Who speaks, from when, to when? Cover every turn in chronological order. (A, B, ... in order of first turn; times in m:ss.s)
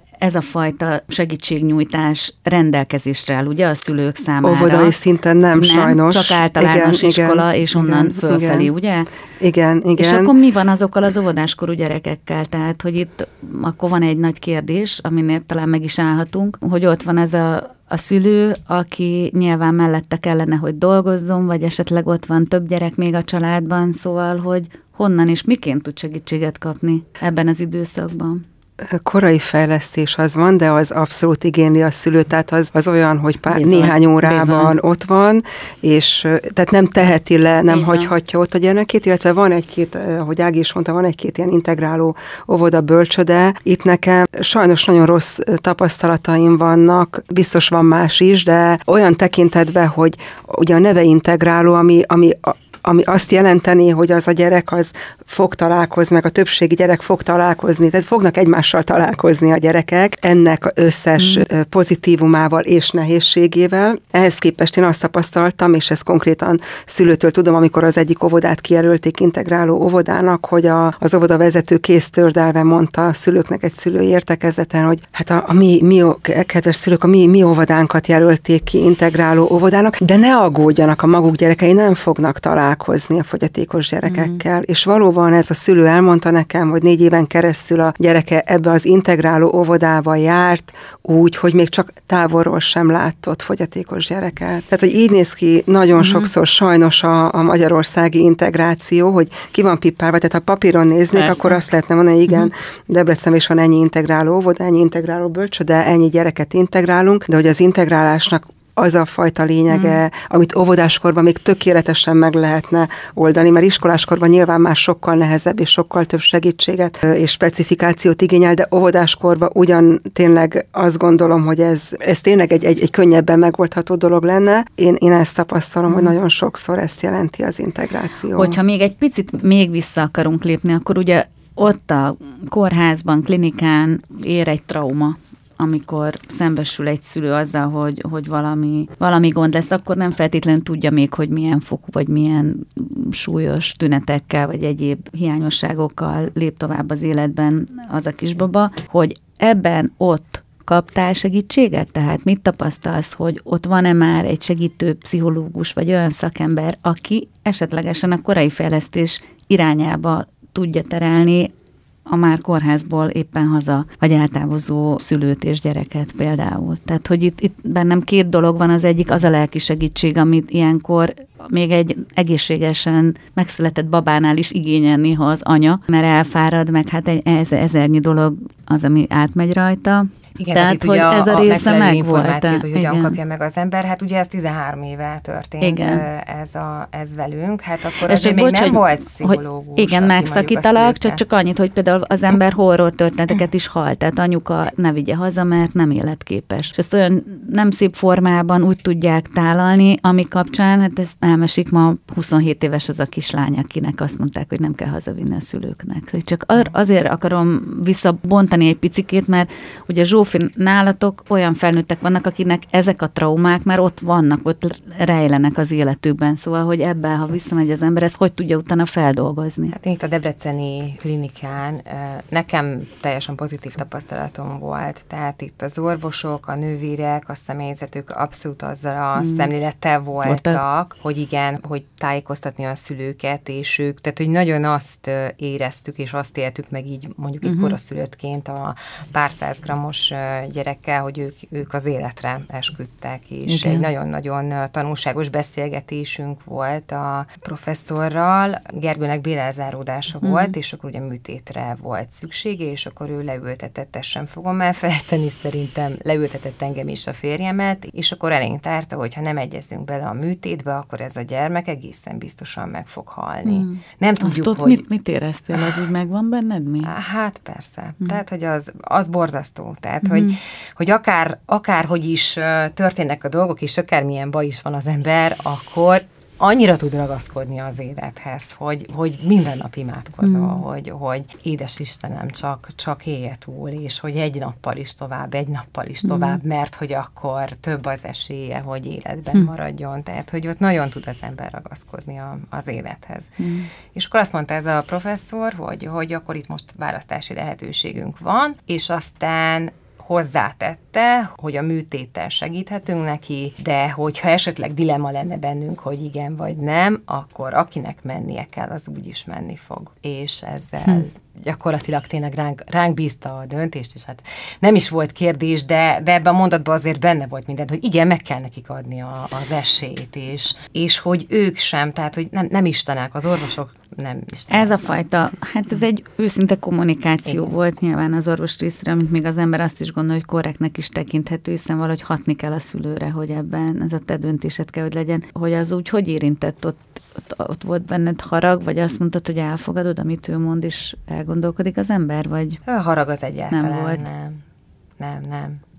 0:00.2-0:04.9 A
0:04.4-0:08.7 B
0:05.6-0:09.1 A
0:09.4-0:10.3 B
0:10.0-0:28.4 A
0:28.8-2:08.6 B
0:33.5-0:34.8 A
0:37.7-0:38.1 A
1:01.2-1:01.4 A
1:24.0-1:24.4 A
1:36.0-1:36.3 A
1:41.1-1:41.6 A
1:49.7-1:50.0 A
2:05.9-2:06.1 A
2:08.3-2:41.5 A
2:42.1-3:03.2 A
3:00.4-3:11.2 C
3:05.6-3:06.0 A
3:08.0-3:39.7 A
3:39.7-4:24.8 C
3:49.2-3:49.5 A
3:50.2-3:50.6 A
3:57.4-3:57.8 A
4:03.5-4:03.8 A
4:10.2-4:10.5 A
4:23.4-4:26.9 A
4:25.5-4:25.9 C
4:26.8-4:53.4 C
4:30.0-4:30.4 A
4:40.2-4:40.6 A
4:46.0-4:46.4 A
4:53.4-4:53.7 A
4:53.9-5:24.8 C
5:24.5-5:42.6 A
5:27.2-5:27.5 C
5:42.6-5:44.4 C
5:43.5-5:44.0 A
5:45.0-5:45.6 C